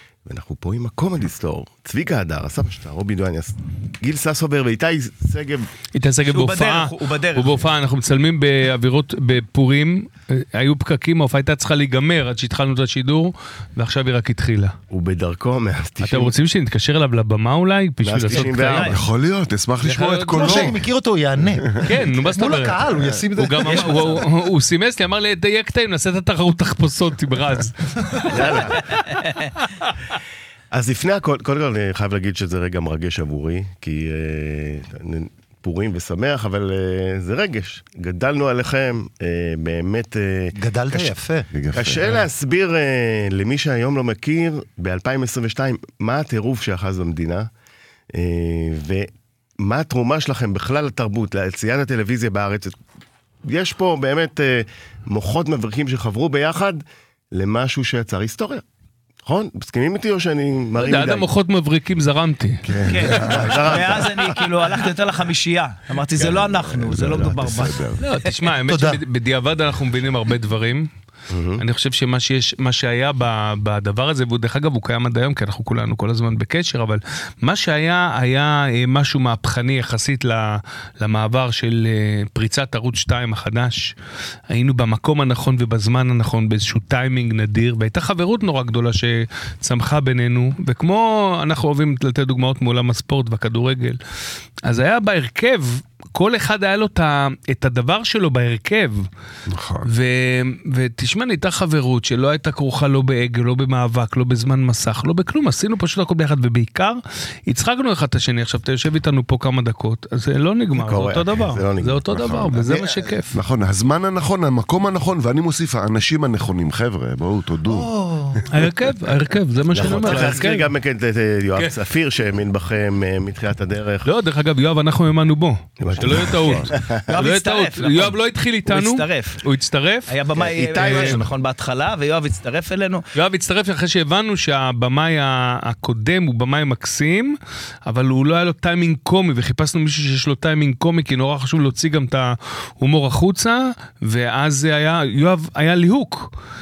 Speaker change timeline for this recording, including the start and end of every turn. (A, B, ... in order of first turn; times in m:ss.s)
0:00.2-0:05.7 A
0:05.9-0:14.7 B
0:06.3-0:07.7 C
0:14.9-0:16.3 A
0:16.0-0:19.0 B
0:18.0-0:19.0 A
0:18.6-0:18.9 C
0:18.8-0:20.8 D
0:19.8-0:20.8 B
0:20.3-0:24.1 E
0:21.5-0:21.8 D
0:21.8-0:22.8 B
0:23.3-0:28.8 B
0:23.6-0:24.1 C
0:28.2-0:29.0 A
0:29.1-0:29.5 C
0:30.7-0:41.1 A
0:40.6-0:41.5 E
0:41.5-0:42.2 D
0:41.7-0:47.5 A
0:48.1-0:49.1 A
0:49.6-0:52.8 A
0:53.4-0:58.6 A
0:59.2-1:01.3 A
1:00.8-1:02.6 B
1:02.6-1:03.9 D
1:02.8-1:07.8 C
1:03.2-1:04.3 A
1:06.1-1:08.0 D
1:08.0-1:10.9 B
1:08.7-1:09.0 E
1:11.3-1:11.6 A
1:11.6-1:23.9 B
1:24.5-1:34.0 B
1:34.6-1:39.1 B
1:39.5-1:39.9 D
1:39.8-1:53.4 B
1:50.7-1:52.1 A
1:52.1-1:58.7 D
1:57.7-1:58.4 E
1:58.5-2:00.7 B
1:59.7-2:04.1 A
1:59.8-2:00.4 E
2:04.0-2:10.1 B
2:05.8-2:06.9 A
2:05.9-2:06.7 D
2:07.1-2:09.4 C
2:10.1-2:13.0 C
2:10.3-2:11.2 A
2:10.7-2:11.2 B
2:13.1-2:26.3 B